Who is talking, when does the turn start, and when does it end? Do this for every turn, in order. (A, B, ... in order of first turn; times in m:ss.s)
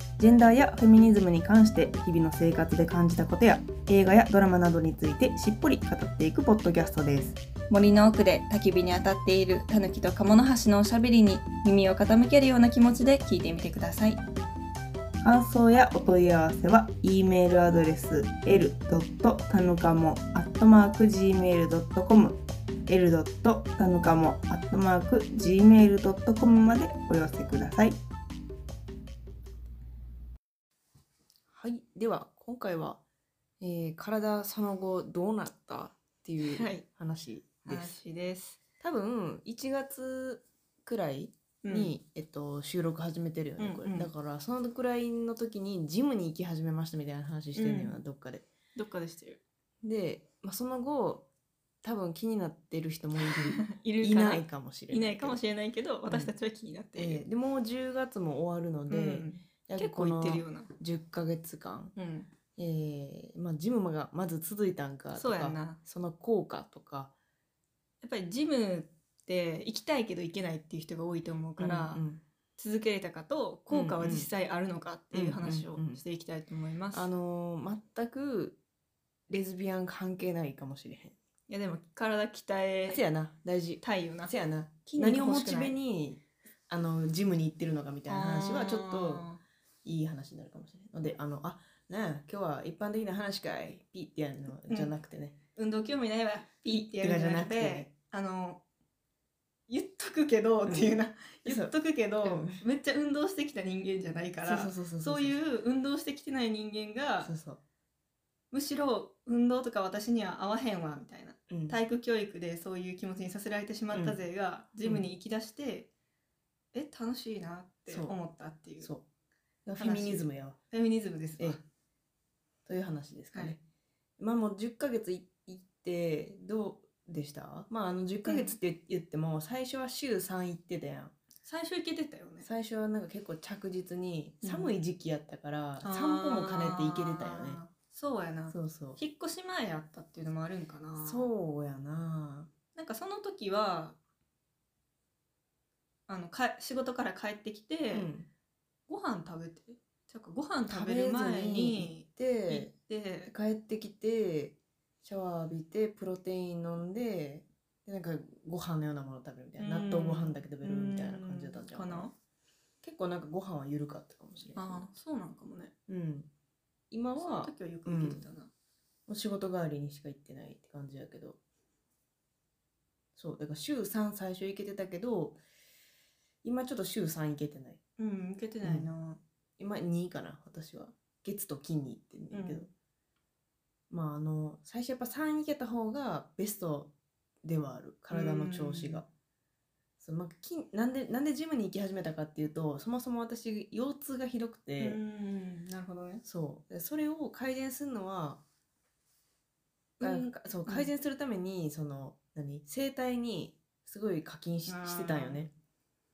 0:00.2-0:05.2 A
0:00.8-0:02.0 B
0:02.5-0:07.4 B
0:07.7-0:14.2 C
0:15.2-0:28.0 B
0:31.5-0:33.0 A
0:33.6-0:38.0 A
0:36.4-0:36.8 C
0:37.7-0:38.6 C
0:38.8-0:48.5 A
0:41.6-0:41.9 C
0:43.6-0:44.1 C
0:47.6-0:48.0 C
0:48.8-0:49.4 C
0:49.8-0:51.3 A
0:51.8-0:55.4 A
0:53.2-0:57.3 C
0:57.0-1:01.9 A
0:58.9-1:00.7 C
1:02.0-1:02.3 C
1:02.6-1:07.1 A
1:05.1-1:05.8 C
1:08.0-1:12.0 C
1:11.6-1:12.2 A
1:12.6-1:17.1 C
1:13.7-1:14.3 A
1:15.1-1:16.0 A
1:16.9-1:18.6 A
1:19.3-1:21.2 A
1:21.5-1:23.0 C
1:22.9-1:29.3 A
1:23.8-1:24.3 C
1:25.0-1:25.8 C
1:28.1-1:29.4 C
1:29.8-1:35.4 A
1:34.7-1:34.9 C
1:35.6-1:38.6 C
1:36.7-1:37.9 A
1:39.7-1:47.3 C
1:40.7-1:42.6 A
1:44.4-1:45.4 A
1:47.2-1:47.6 A
1:48.5-1:55.9 C
1:51.5-1:51.8 A
1:53.9-1:54.2 A
1:56.7-1:58.9 C
1:57.9-1:58.2 A
1:59.6-2:00.6 A
1:59.8-2:01.6 C
2:02.7-2:03.6 A
2:04.2-2:11.2 A
2:08.2-2:08.6 C
2:11.4-2:12.5 C
2:12.4-2:17.6 A
2:14.4-2:14.7 C
2:15.8-2:21.3 C
2:18.5-2:19.0 A
2:21.0-2:22.5 A
2:22.8-2:24.0 C
2:26.1-2:28.1 C
2:27.9-2:28.3 A
2:28.9-2:33.3 C
2:30.7-2:32.7 A
2:33.3-2:42.1 A
2:39.6-2:42.1 C
2:42.8-2:44.9 A
2:44.6-2:45.7 C
2:45.9-2:46.3 A
2:46.9-2:48.3 A
2:47.2-2:48.5 C
2:49.1-2:51.4 A
2:53.2-2:55.4 A
2:56.4-2:57.8 A
2:58.0-2:59.2 C
2:58.6-2:58.9 A
2:59.6-3:02.7 A
3:02.3-3:02.7 C
3:03.9-3:06.9 A
3:07.4-3:09.1 A
3:08.1-3:09.0 C
3:10.0-3:15.0 A
3:14.8-3:16.2 C
3:16.2-3:18.4 A
3:20.0-3:20.9 C
3:20.0-3:25.5 A
3:24.7-3:25.4 C